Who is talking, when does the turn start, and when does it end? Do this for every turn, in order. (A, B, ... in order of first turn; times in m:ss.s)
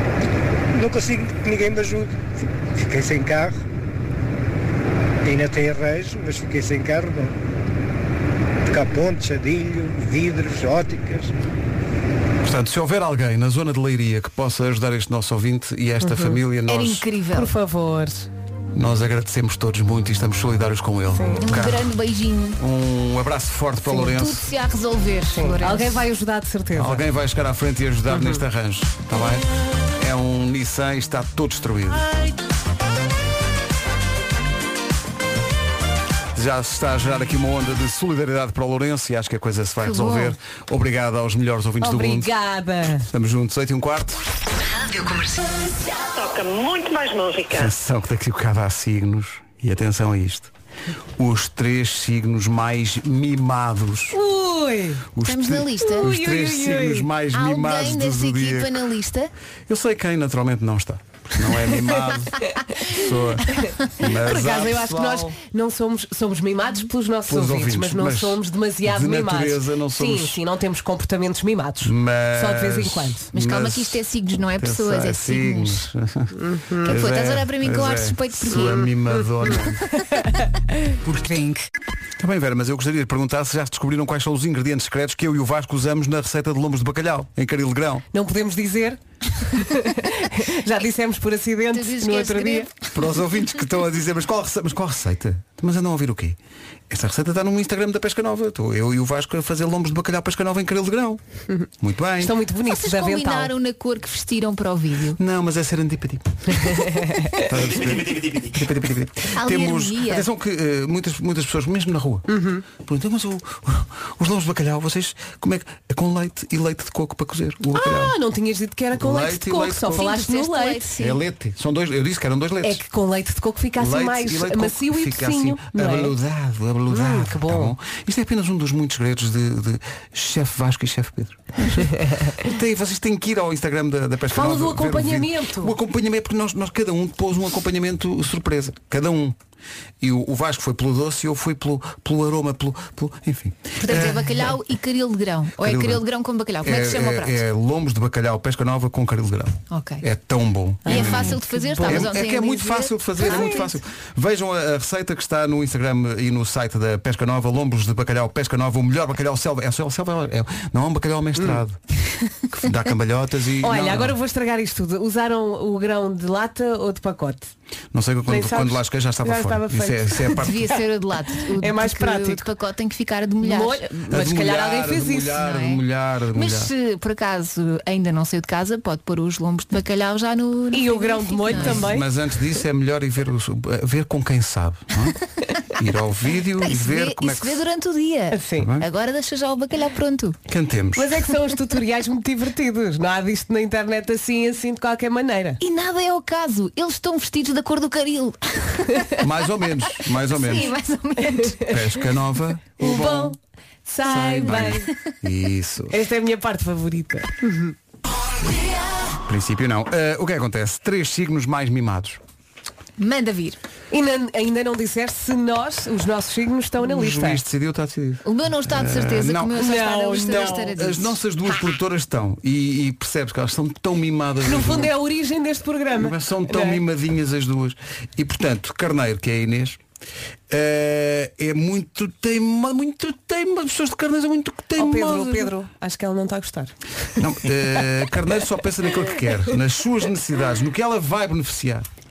0:00.7-0:03.6 A
0:05.2-0:07.4 A
0:08.7-0:11.3 A
0:12.4-0:17.1 B
0:16.0-0:16.4 C
0:16.7-0:17.5 D
0:17.3-0:18.3 C
0:18.7-0:21.9 B
0:21.1-0:21.6 C
0:21.4-0:22.6 D
0:22.6-0:24.5 B
0:23.9-0:26.0 D
0:25.3-0:27.0 C
0:26.8-0:32.1 B
0:28.1-0:28.4 C
0:36.4-0:42.3 B
0:39.8-0:40.4 D
0:41.8-0:43.1 C
0:43.1-0:44.2 B
0:44.7-0:47.7 E
0:47.5-0:50.5 B
0:51.2-0:54.2 B
0:54.1-0:55.0 C
0:55.2-0:58.8 B
0:55.2-0:56.1 D
0:55.8-0:57.1 C
0:57.3-0:59.3 D
0:59.7-1:05.2 B
1:02.4-1:03.0 C
1:03.5-1:13.3 C
1:07.3-1:10.4 B
1:11.8-1:14.0 B
1:13.3-1:15.8 D
1:14.6-1:16.3 B
1:16.4-1:17.0 C
1:16.8-1:18.9 D
1:16.9-1:19.9 B
1:19.2-1:21.4 C
1:22.2-1:28.1 B
1:28.1-1:32.7 C
1:31.7-1:32.8 D
1:32.9-1:36.4 B
1:36.9-1:41.2 B
1:41.8-1:42.3 B
1:42.2-1:43.5 C
1:42.6-1:45.2 D
1:45.2-1:58.1 B
1:46.5-1:47.4 C
1:49.4-1:50.3 D
1:52.3-1:52.6 C
1:57.7-2:00.9 C
1:59.0-2:00.1 B
1:59.9-2:01.2 D
2:01.0-2:02.8 B
2:02.6-2:06.1 C
2:03.8-2:19.4 B
2:06.9-2:07.7 C
2:11.8-2:12.3 C
2:14.3-2:15.7 C
2:20.0-2:24.5 B
2:23.8-2:27.4 D
2:25.6-2:26.0 B
2:26.6-2:41.8 B
2:29.7-2:30.0 D
2:30.8-2:32.2 C
2:30.9-2:33.7 D
2:33.2-2:33.7 C
2:42.5-2:44.2 B
2:43.6-2:47.5 C
2:47.9-2:50.6 B
2:48.3-2:50.4 C
2:50.4-2:53.9 D
2:51.6-2:52.5 C
2:53.4-2:55.4 C
2:54.1-2:56.7 B
2:55.4-2:55.8 D
2:56.3-3:01.9 D
3:00.7-3:02.1 C
3:01.5-3:05.2 B
3:05.8-3:07.6 B
3:06.6-3:10.4 D
3:08.3-3:08.7 C
3:10.5-3:11.2 B
3:11.0-3:15.6 C
3:15.6-3:19.2 D
3:19.2-3:20.7 B
3:20.3-3:21.7 D
3:21.2-3:21.7 C
3:21.6-3:23.4 B
3:22.8-3:24.9 C
3:24.1-3:26.0 B
3:25.9-3:27.7 C
3:29.3-3:32.2 B
3:33.0-3:33.6 D
3:33.9-3:37.4 C
3:36.8-3:44.9 B
3:38.2-3:41.6 D
3:39.6-3:40.7 C
3:44.4-3:46.8 C
3:46.0-3:49.8 B
3:50.5-3:55.5 B
3:54.8-3:56.7 C
3:57.2-4:01.9 B